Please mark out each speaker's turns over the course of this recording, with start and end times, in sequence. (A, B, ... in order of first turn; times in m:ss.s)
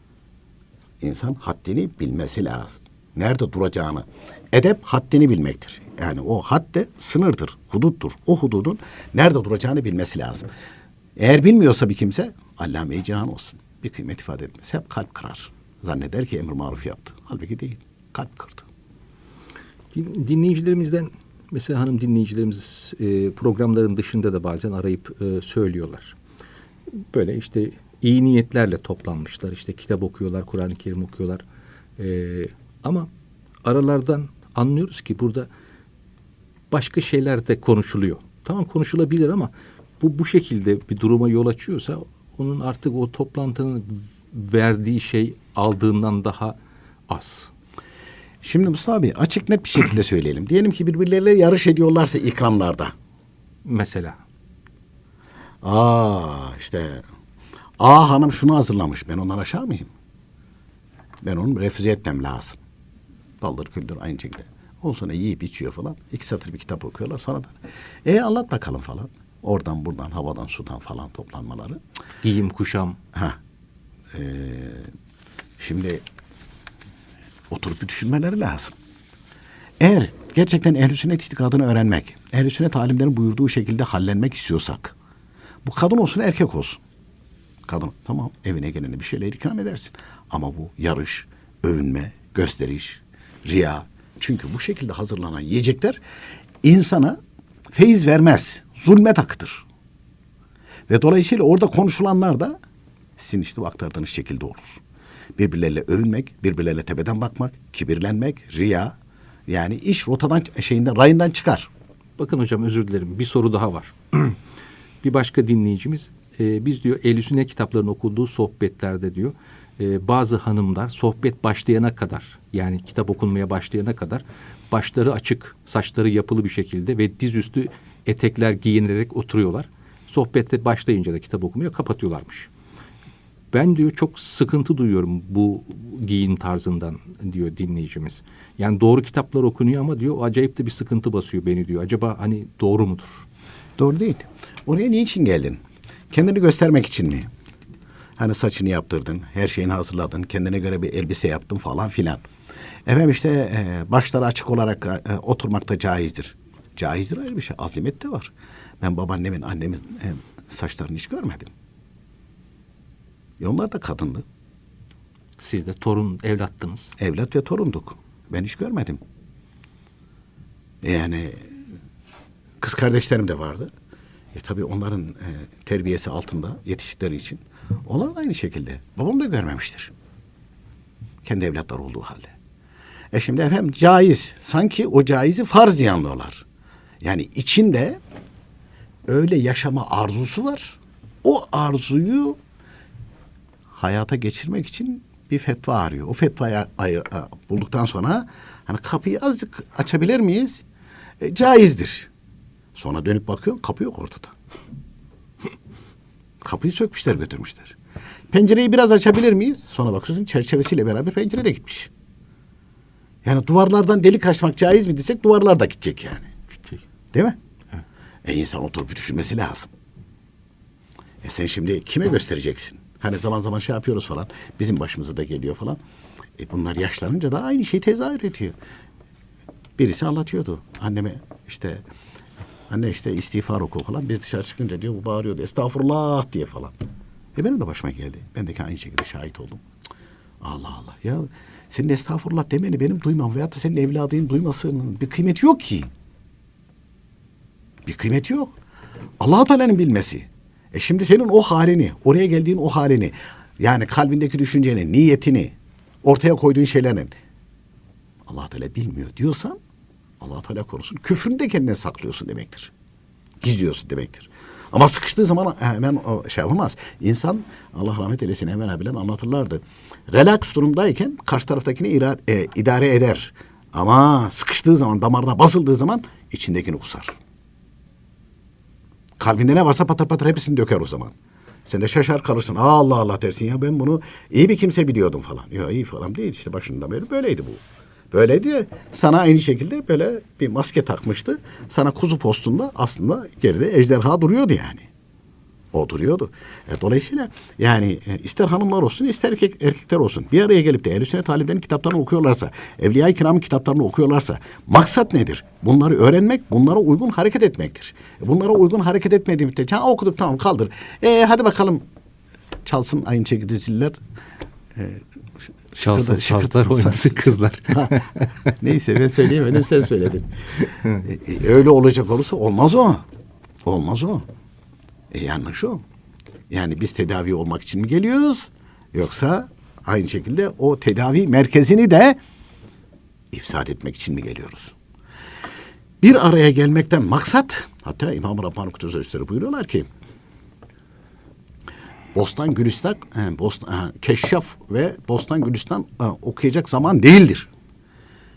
0:01.0-0:10.5 A
0:11.2-0:18.7 A
0:19.9-0:26.2 B
0:26.9-0:31.4 B
0:32.0-0:33.1 B
0:33.6-0:35.5 B
0:36.7-0:46.6 B
0:47.1-0:47.5 B
0:48.4-0:52.9 A
0:53.6-0:54.2 B
0:55.6-0:57.0 A
0:57.8-0:59.9 A
1:01.2-1:02.6 A
1:03.4-1:11.8 A
1:12.2-1:13.0 B
1:13.1-1:13.4 A
1:14.1-1:14.9 A
1:15.6-1:16.0 A
1:17.5-1:18.7 A
1:19.8-1:24.9 A
1:25.6-1:26.8 A
1:27.7-1:36.0 A
1:36.6-1:37.2 A
1:37.7-1:39.7 A
1:40.9-1:42.6 A
1:43.2-1:44.8 A
1:45.4-1:49.0 A
1:49.5-1:51.7 A
1:52.2-1:54.4 B
1:55.0-2:12.5 B
2:13.5-2:23.3 B
2:23.8-2:25.6 A
2:26.1-2:27.3 A
2:28.2-2:32.2 A
2:32.9-2:41.5 A
2:43.4-2:44.2 A
2:45.4-2:46.9 B
2:47.0-2:49.0 A
2:50.8-2:51.6 A
2:52.6-2:53.7 A
2:54.3-2:59.9 A
3:01.2-3:02.3 A
3:03.1-3:06.4 A
3:07.0-3:08.0 A
3:09.1-3:12.4 A
3:13.7-3:20.6 A
3:21.2-3:22.1 A
3:22.8-3:24.3 A
3:26.4-3:27.8 A
3:28.3-3:31.9 A
3:33.2-3:36.3 A
3:38.2-3:39.7 A
3:41.2-3:45.8 A
3:46.4-3:48.6 A
3:49.8-3:51.8 A
3:52.7-3:56.7 A
3:57.4-3:59.6 A
4:00.4-4:05.9 A
4:07.8-4:08.6 A
4:09.2-4:17.1 A
4:18.3-4:19.6 A
4:20.2-4:22.7 A
4:23.4-4:37.2 A
4:39.2-4:41.2 A
4:41.7-4:54.9 A
4:55.7-5:11.8 A
5:12.6-5:14.0 A
5:14.8-5:23.0 A
5:15.8-5:18.6 B
5:23.6-5:24.2 A
5:25.1-5:25.8 A
5:26.5-5:32.2 A
5:33.3-5:34.8 A
5:36.0-5:39.9 A
5:42.1-5:47.5 A